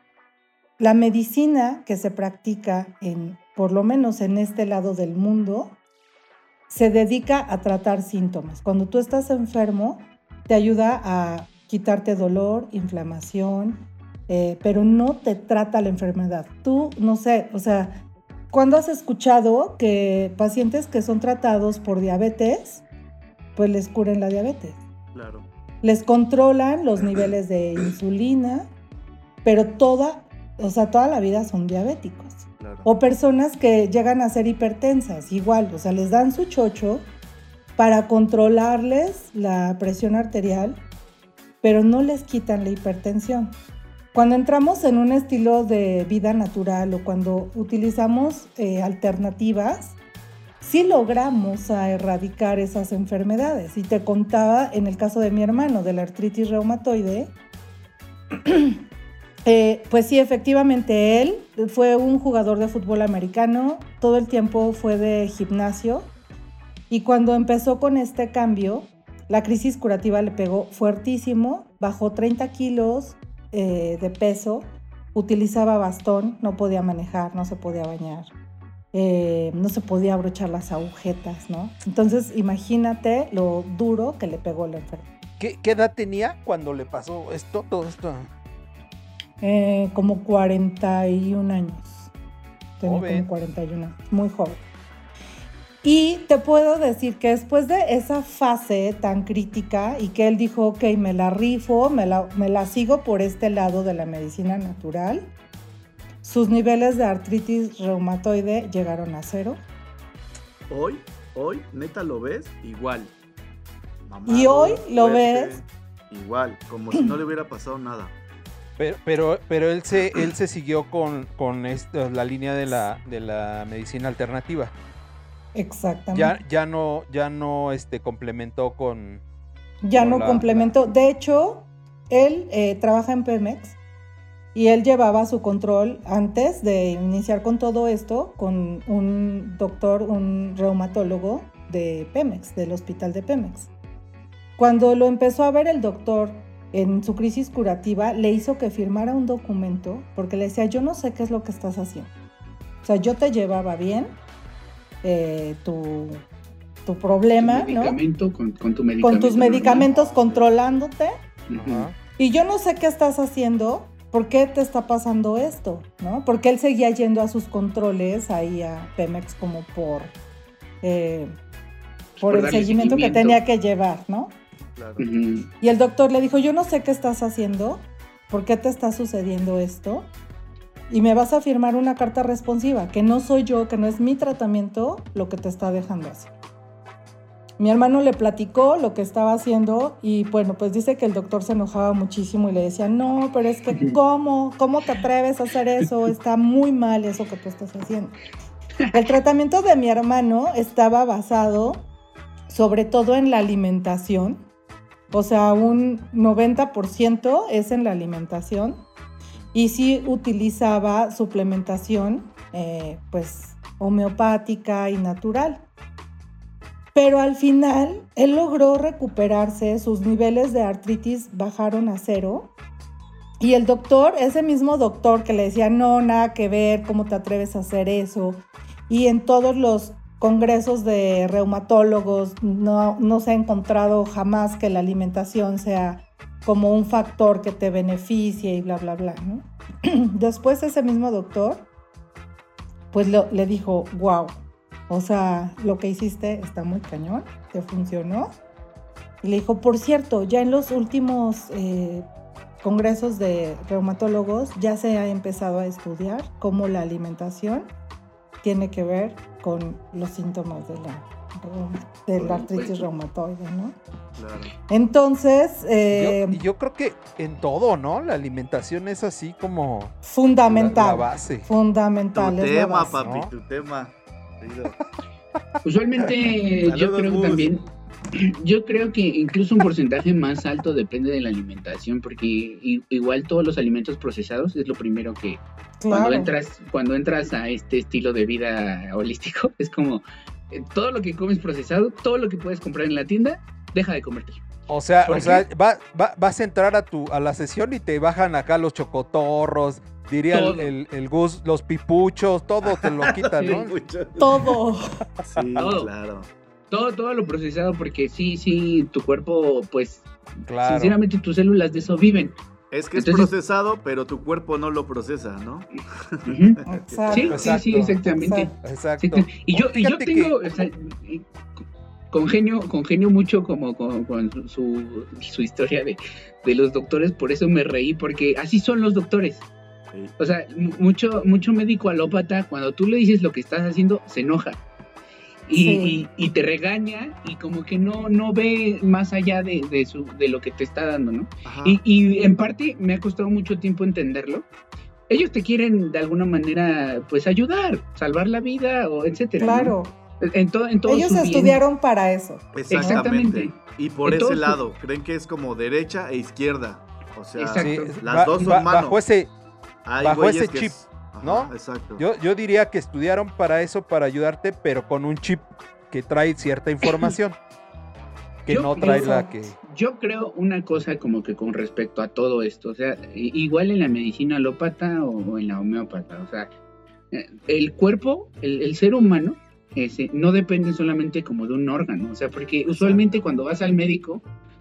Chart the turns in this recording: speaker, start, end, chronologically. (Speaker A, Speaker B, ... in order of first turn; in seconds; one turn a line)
Speaker A: 0.8-5.8
Speaker A: 6.7-22.8
Speaker A: 23.6-24.8
Speaker B: 25.1-25.4
Speaker A: 25.8-28.7
Speaker A: 29.4-37.0
Speaker B: 32.6-32.9
Speaker A: 37.8-40.8
Speaker A: 41.6-43.5
Speaker A: 44.1-50.0
Speaker A: 50.6-57.3
Speaker A: 58.4-58.8
Speaker A: 59.5-66.1
Speaker A: 66.9-78.3
Speaker A: 78.9-85.1
Speaker C: 85.4-88.3
Speaker A: 89.4-92.1
Speaker A: 92.8-94.6
Speaker C: 92.8-93.3
Speaker A: 95.8-105.3
Speaker A: 106.2-109.6
Speaker B: 110.7-113.1
Speaker B: 114.1-118.1
Speaker A: 114.3-115.6
Speaker C: 118.8-124.7
Speaker A: 125.5-126.3
Speaker C: 126.1-129.2
Speaker A: 129.8-133.8
Speaker C: 129.9-130.7
Speaker A: 134.5-143.7
Speaker A: 144.6-152.1
Speaker A: 152.8-154.2
Speaker A: 155.0-156.2
Speaker A: 156.8-158.0
Speaker D: 157.4-159.9
Speaker A: 159.0-161.2
Speaker B: 159.7-160.5
Speaker D: 161.5-161.9
Speaker C: 161.6-161.9
Speaker A: 162.2-170.1
Speaker A: 170.8-171.3
Speaker A: 172.2-174.3
Speaker D: 172.2-173.4
Speaker B: 174.7-175.1
Speaker D: 175.0-175.5
Speaker A: 175.6-180.1
Speaker A: 180.9-186.3
Speaker A: 187.6-198.2
Speaker A: 198.9-201.8
Speaker A: 202.5-204.4
Speaker A: 205.1-208.8
Speaker A: 209.5-215.6
Speaker A: 216.9-222.5
Speaker A: 223.4-241.7
Speaker A: 242.9-248.3
Speaker A: 249.2-252.1
Speaker A: 252.6-257.7
Speaker A: 258.4-263.8
Speaker D: 262.2-262.9
Speaker B: 264.2-264.5
Speaker A: 264.7-266.4
Speaker C: 265.9-270.0
Speaker A: 270.0-273.0
Speaker C: 270.5-271.5
Speaker B: 272.1-274.8
Speaker C: 273.0-273.3
Speaker D: 275.6-277.6
Speaker B: 276.6-277.6
Speaker D: 278.1-294.4
Speaker A: 285.8-286.3
Speaker C: 294.7-303.7
Speaker D: 295.0-295.4
Speaker B: 295.1-295.3
Speaker D: 300.3-300.7
Speaker B: 302.6-304.4
Speaker A: 304.2-305.0
Speaker B: 305.3-306.3
Speaker C: 305.4-305.6
Speaker D: 305.6-305.9
Speaker D: 306.7-310.1
Speaker C: 310.5-310.9
Speaker D: 310.6-312.4
Speaker B: 312.7-317.5
Speaker D: 312.9-313.3
Speaker D: 316.2-321.3
Speaker A: 316.6-317.5
Speaker C: 317.2-318.0
Speaker A: 318.2-318.5
Speaker C: 318.6-320.4
Speaker D: 322.1-329.5
Speaker D: 330.2-334.6
Speaker D: 335.5-344.4
Speaker A: 335.5-335.9
Speaker B: 341.4-341.8
Speaker D: 345.1-351.6
Speaker A: 349.4-349.9
Speaker A: 350.9-353.0
Speaker B: 352.5-359.0
Speaker D: 352.7-354.6
Speaker D: 357.4-358.6
Speaker C: 357.6-359.3
Speaker B: 359.9-362.0
Speaker C: 360.0-367.4
Speaker D: 366.8-367.1
Speaker C: 368.4-369.6
Speaker D: 368.5-376.5
Speaker A: 368.8-369.4
Speaker D: 377.1-384.2
Speaker B: 382.7-383.2